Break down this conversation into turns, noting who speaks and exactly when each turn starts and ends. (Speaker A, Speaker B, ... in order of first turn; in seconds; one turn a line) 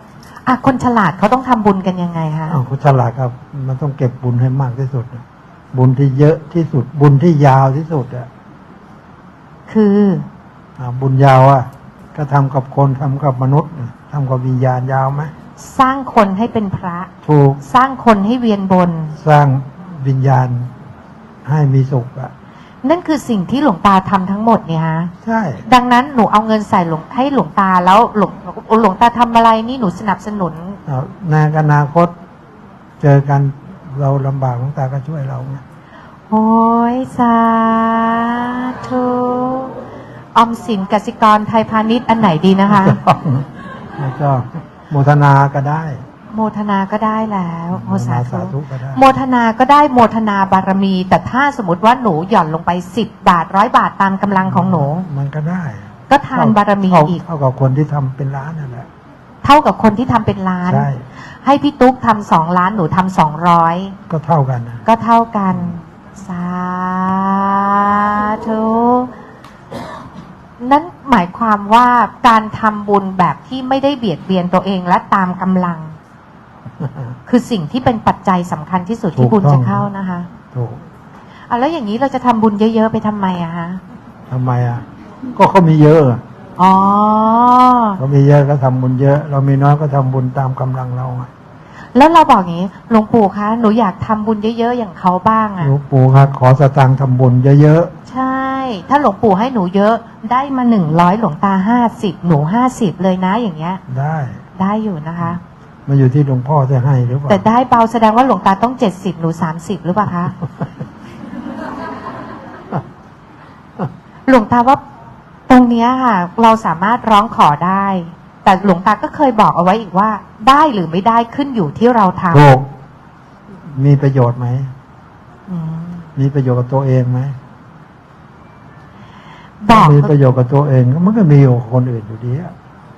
Speaker A: 0.5-2.6
Speaker B: 2.5-8.3
Speaker A: 9.7-10.3
Speaker B: 10.8-15.3
Speaker A: 15.6-17.1
Speaker B: 17.2-17.6
Speaker A: 17.6-19.2
Speaker B: 19.2-20.7
Speaker B: 21.4-22.3
Speaker A: 22.8-25.1
Speaker B: 25.2-25.6
Speaker A: 25.6-30.8
Speaker B: 30.9-32.1
Speaker B: 33.0-35.6
Speaker A: 36.3-39.8
Speaker A: 40.3-43.0
Speaker B: 42.7-46.0
Speaker A: 46.3-55.1
Speaker B: 47.7-49.1
Speaker B: 54.4-58.9
Speaker A: 56.1-57.2
Speaker A: 59.4-64.0
Speaker B: 60.6-61.0
Speaker B: 64.1-64.9
Speaker A: 64.9-69.1
Speaker A: 70.6-76.0
Speaker B: 76.8-77.2
Speaker A: 77.3-80.3
Speaker B: 79.2-79.9
Speaker B: 80.5-80.8
Speaker A: 81.5-83.8
Speaker B: 84.3-84.8
Speaker B: 85.4-86.2
Speaker A: 86.6-88.0
Speaker B: 88.0-91.3
Speaker A: 91.9-95.7
Speaker B: 95.6-97.9
Speaker A: 98.1-103.8
Speaker B: 103.9-104.4
Speaker A: 104.6-105.4
Speaker B: 105.9-107.5
Speaker A: 107.3-110.4
Speaker A: 114.3-114.8
Speaker A: 115.5-122.5
Speaker B: 122.3-122.7
Speaker B: 123.7-124.7
Speaker A: 125.5-126.1
Speaker B: 126.2-127.4
Speaker A: 129.6-130.1
Speaker B: 129.7-132.5